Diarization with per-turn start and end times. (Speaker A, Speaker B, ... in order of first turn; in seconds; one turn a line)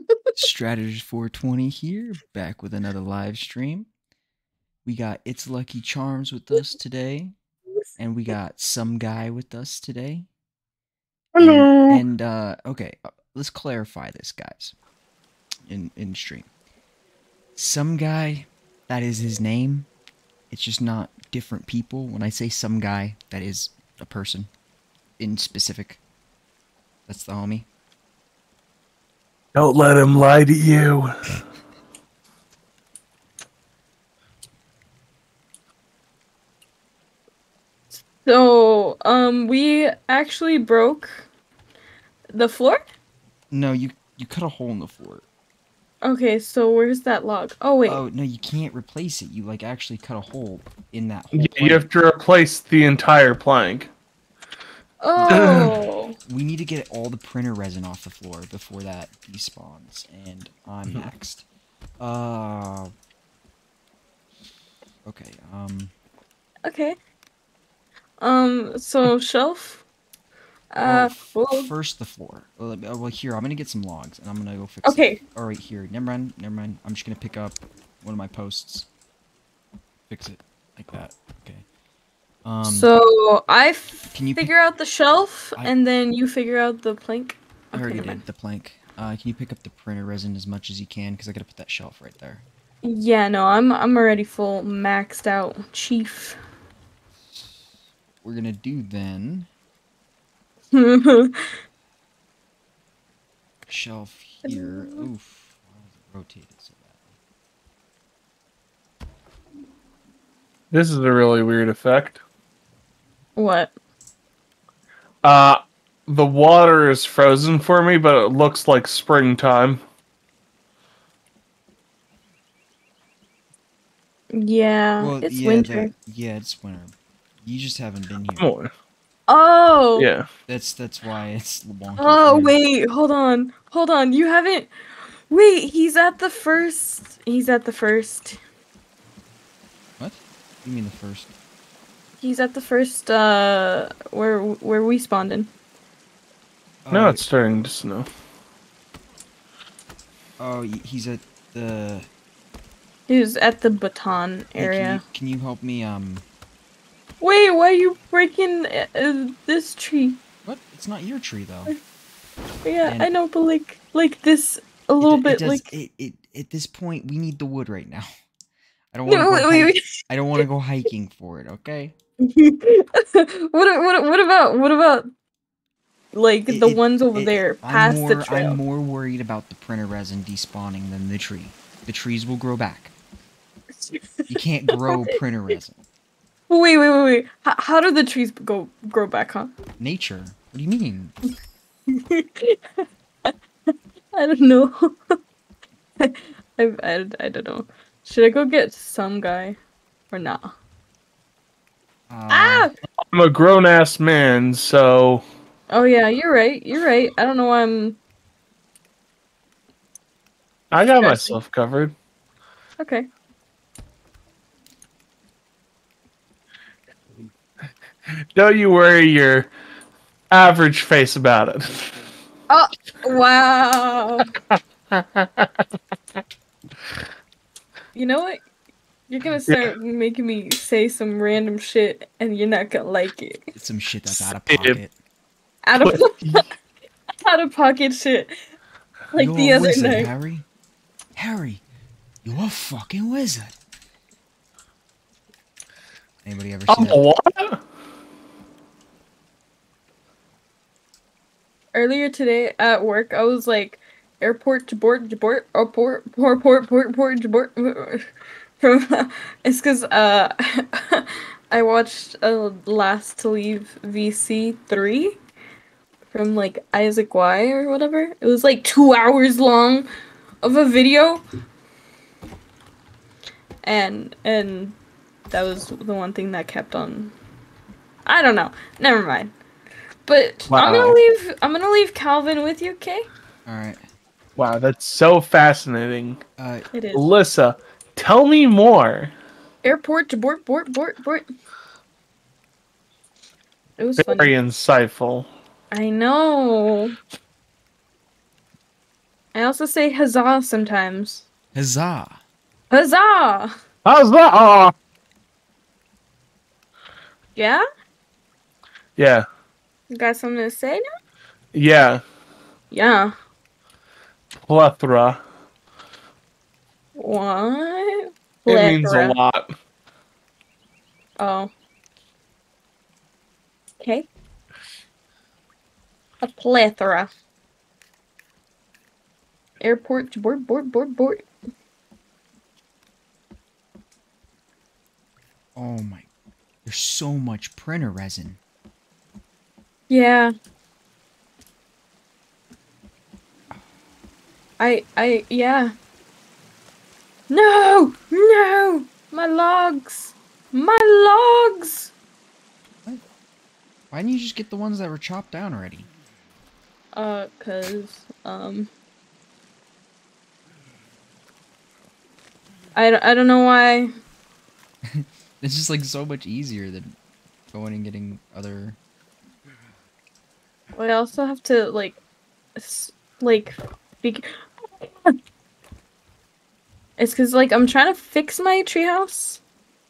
Speaker A: 0.3-3.9
Speaker A: 4.8-7.3
Speaker A: 8.0-10.3
Speaker B: 11.3-12.0
Speaker A: 11.4-14.8
Speaker A: 15.7-16.5
Speaker A: 17.6-19.9
Speaker A: 20.5-24.5
Speaker A: 25.2-26.0
Speaker A: 27.1-27.7
Speaker C: 29.6-31.4
Speaker B: 38.0-41.3
Speaker B: 42.3-42.8
Speaker A: 43.5-45.2
Speaker B: 46.0-48.0
Speaker A: 47.9-51.9
Speaker C: 51.3-53.9
Speaker B: 55.0-56.1
Speaker A: 55.2-55.6
Speaker C: 55.3-55.8
Speaker A: 56.3-61.5
Speaker A: 62.0-62.9
Speaker A: 65.0-65.9
Speaker B: 66.7-67.0
Speaker B: 68.2-69.8
Speaker B: 70.7-71.7
Speaker A: 70.8-78.9
Speaker B: 74.8-75.2
Speaker A: 80.1-81.7
Speaker A: 82.4-82.9
Speaker B: 82.7-88.2
Speaker A: 84.1-84.5
Speaker A: 87.7-92.4
Speaker B: 92.8-96.4
Speaker A: 97.2-99.5
Speaker B: 100.7-101.5
Speaker A: 103.7-107.2
Speaker B: 104.5-105.1
Speaker C: 110.7-112.2
Speaker B: 113.4-113.7
Speaker C: 115.2-119.8
Speaker B: 124.3-125.9
Speaker A: 125.0-128.5
Speaker C: 128.4-128.7
Speaker B: 129.3-130.1
Speaker C: 130.0-130.3
Speaker A: 130.5-132.6
Speaker B: 132.0-134.7
Speaker B: 135.3-138.4
Speaker A: 140.0-141.3
Speaker B: 142.2-145.5
Speaker A: 146.8-147.2
Speaker C: 146.9-148.1
Speaker A: 150.4-152.1
Speaker B: 153.1-155.0
Speaker A: 154.6-156.3
Speaker B: 157.2-160.2
Speaker A: 160.4-161.8
Speaker B: 162.7-165.7
Speaker A: 162.8-163.1
Speaker A: 165.0-168.1
Speaker A: 168.9-171.9
Speaker B: 169.1-170.4
Speaker B: 172.2-175.1
Speaker B: 176.1-178.6
Speaker A: 176.5-182.9
Speaker B: 183.8-185.2
Speaker A: 184.3-185.8
Speaker B: 186.5-189.6
Speaker A: 189.8-191.2
Speaker B: 191.9-195.2
Speaker B: 196.0-199.6
Speaker B: 200.1-200.5
Speaker A: 202.1-202.7
Speaker B: 202.3-202.7
Speaker C: 203.1-205.2
Speaker B: 205.7-208.0
Speaker C: 210.7-211.9
Speaker B: 211.0-211.3
Speaker B: 212.8-213.1
Speaker C: 218.1-219.5
Speaker C: 220.3-221.9
Speaker B: 222.5-224.3
Speaker C: 224.5-225.5
Speaker B: 227.9-228.4
Speaker B: 229.1-233.4
Speaker C: 229.5-229.8
Speaker A: 233.6-234.9
Speaker C: 234.5-234.8
Speaker B: 235.7-236.5
Speaker C: 235.8-236.4
Speaker B: 237.2-238.4
Speaker B: 239.1-240.1
Speaker A: 239.2-240.4
Speaker A: 241.2-241.6
Speaker A: 242.2-243.6
Speaker A: 246.2-247.1
Speaker C: 246.7-247.6
Speaker B: 251.7-258.1
Speaker B: 258.6-265.2
Speaker B: 266.1-269.9
Speaker B: 270.4-271.2
Speaker B: 273.6-274.8
Speaker B: 275.3-277.1
Speaker B: 278.1-279.3
Speaker B: 280.1-283.1
Speaker C: 280.5-281.0
Speaker A: 283.5-283.8
Speaker C: 284.4-286.2
Speaker A: 286.4-286.7
Speaker B: 286.7-287.1
Speaker C: 286.9-289.1
Speaker B: 289.6-291.3
Speaker B: 293.8-294.3
Speaker C: 294.0-295.3
Speaker B: 295.7-297.0
Speaker B: 299.4-301.2
Speaker A: 301.5-302.2
Speaker B: 302.7-303.5
Speaker C: 303.9-304.7
Speaker B: 307.4-307.6
Speaker C: 309.0-309.2
Speaker B: 309.9-310.8
Speaker C: 311.5-312.0
Speaker B: 312.7-313.1
Speaker C: 314.4-315.2
Speaker B: 317.0-319.2
Speaker C: 318.5-319.5
Speaker B: 321.2-321.5
Speaker B: 323.8-324.1
Speaker B: 326.2-327.1
Speaker B: 329.6-331.2
Speaker A: 335.6-336.1
Speaker A: 336.6-338.4
Speaker B: 339.9-340.3
Speaker B: 344.6-345.7
Speaker B: 347.3-351.9
Speaker A: 353.9-355.9
Speaker B: 356.9-358.7
Speaker B: 362.8-363.9
Speaker A: 364.9-366.9
Speaker A: 367.5-368.8
Speaker B: 370.7-372.0
Speaker B: 372.6-375.1
Speaker B: 377.0-379.4